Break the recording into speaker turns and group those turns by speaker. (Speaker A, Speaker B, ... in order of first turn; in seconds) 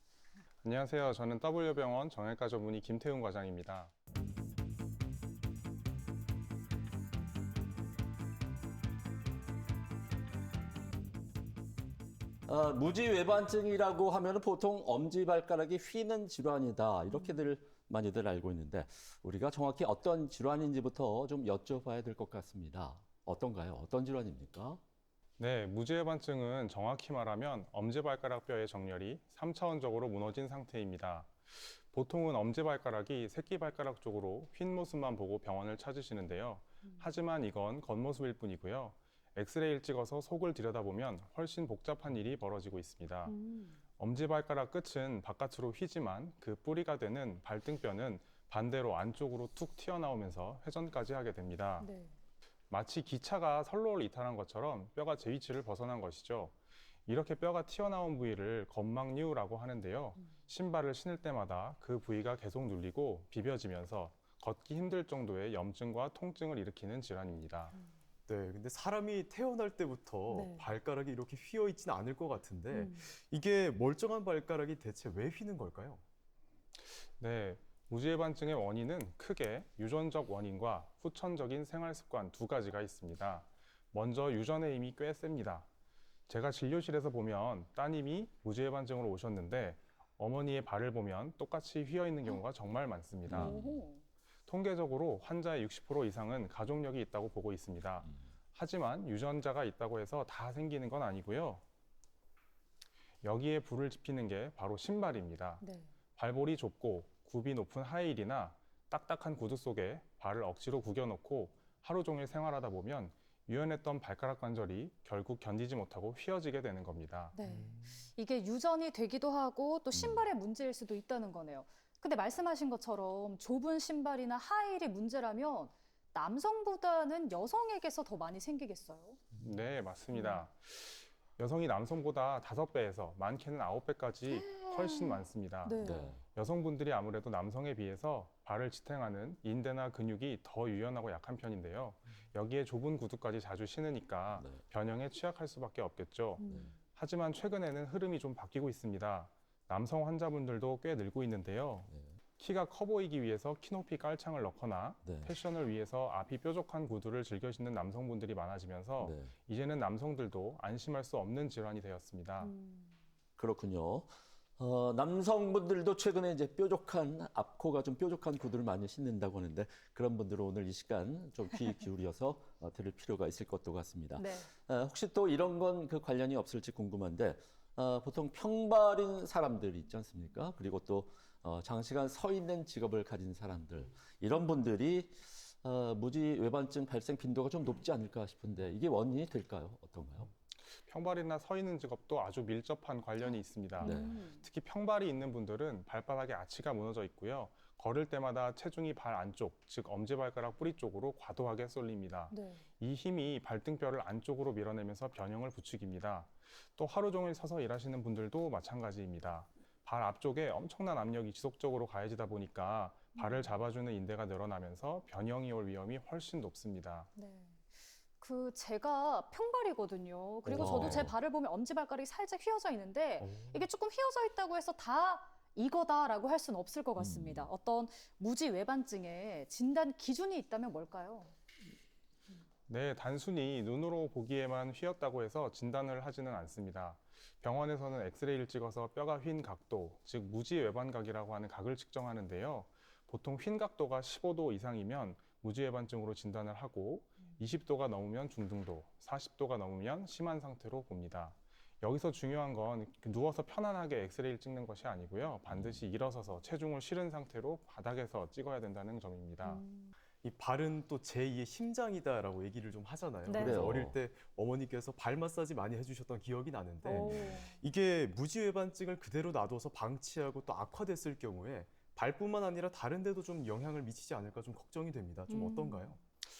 Speaker A: 0.6-3.9, 25.4-43.3, 44.0-51.9, 52.7-56.5, 57.1-67.8, 76.8-85.7, 86.3-93.6, 94.5-101.6, 103.2-105.6, 106.2-117.3, 129.4-162.5, 190.8-217.1, 232.7-259.6
Speaker B: 12.5-24.8, 93.3-93.8, 119.9-120.3, 135.8-136.2, 144.3-144.6, 146.5-146.7, 155.0-155.3, 159.0-159.3, 163.4-190.3, 193.8-194.2, 220.5-221.2, 227.0-227.5, 255.5-255.8, 263.4-264.0, 266.9-267.3
Speaker C: 43.3-43.8, 51.8-52.1, 70.3-70.7, 72.7-73.1, 93.3-94.0, 105.6-105.9, 117.3-129.2, 130.1-130.4, 134.3-136.2, 146.4-146.7, 162.4-162.9, 174.2-174.5, 193.8-194.4, 202.3-202.6, 213.2-213.5, 217.2-231.3, 259.4-259.9, 263.3-263.7, 266.8-267.6, 275.3-275.9
Speaker D: 68.3-76.0, 117.4-118.0, 220.5-221.0, 223.2-223.7, 260.2-276.0